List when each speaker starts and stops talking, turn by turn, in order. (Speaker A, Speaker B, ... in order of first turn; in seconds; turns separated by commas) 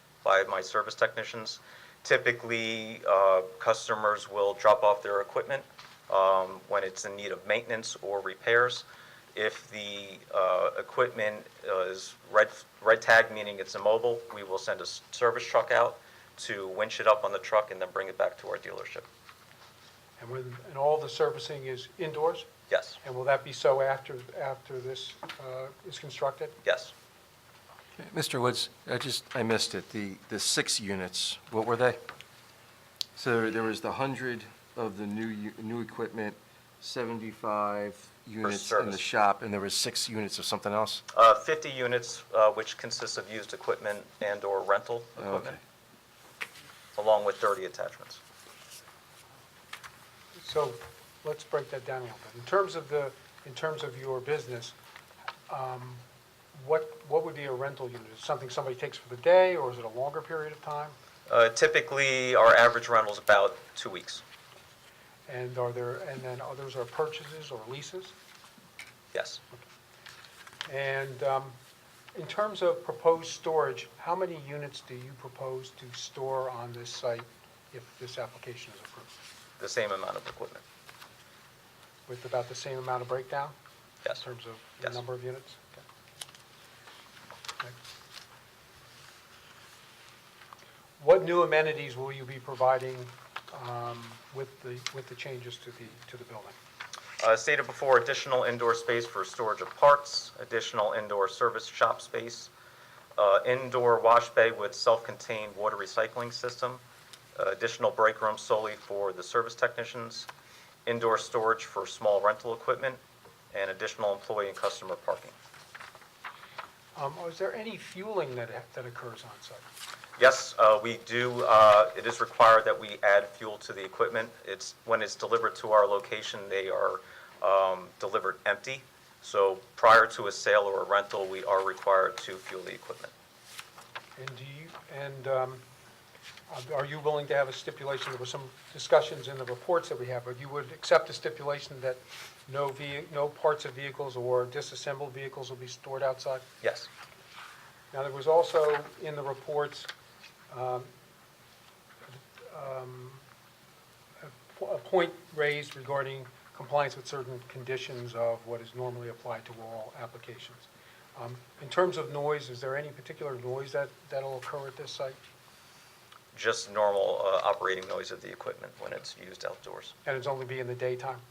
Speaker A: 0.2-19.1, Speaker B: 20.2-22.5, Speaker A: 22.7-23.0, Speaker B: 23.0-26.6, Speaker A: 26.6-26.9, Speaker C: 28.0-32.0, Speaker C: 33.1-41.0, Speaker A: 38.4-39.0, Speaker A: 41.1-45.6, Speaker C: 45.2-45.6, Speaker A: 46.9-48.2, Speaker B: 50.4-54.7, Speaker B: 55.5-56.0, Speaker B: 56.5-61.0, Speaker A: 61.3-64.2, Speaker B: 65.3-68.1, Speaker A: 69.1-69.4, Speaker B: 70.7-71.5, Speaker B: 72.1-79.1, Speaker A: 79.6-80.6, Speaker B: 82.1-83.5, Speaker B: 84.2-85.6, Speaker B: 91.0-96.5, Speaker A: 97.2-102.5, Speaker A: 103.2-106.8, Speaker A: 107.3-110.3, Speaker A: 110.8-113.0, Speaker A: 113.5-115.3, Speaker B: 116.9-119.6, Speaker A: 120.2-133.1, Speaker B: 134.2-135.6, Speaker B: 136.5-146.4, Speaker A: 146.6-146.9, Speaker B: 147.9-149.9, Speaker B: 150.5-150.9, Speaker B: 152.1-153.2, Speaker B: 154.2-165.2, Speaker A: 166.3-169.9, Speaker B: 170.0-171.2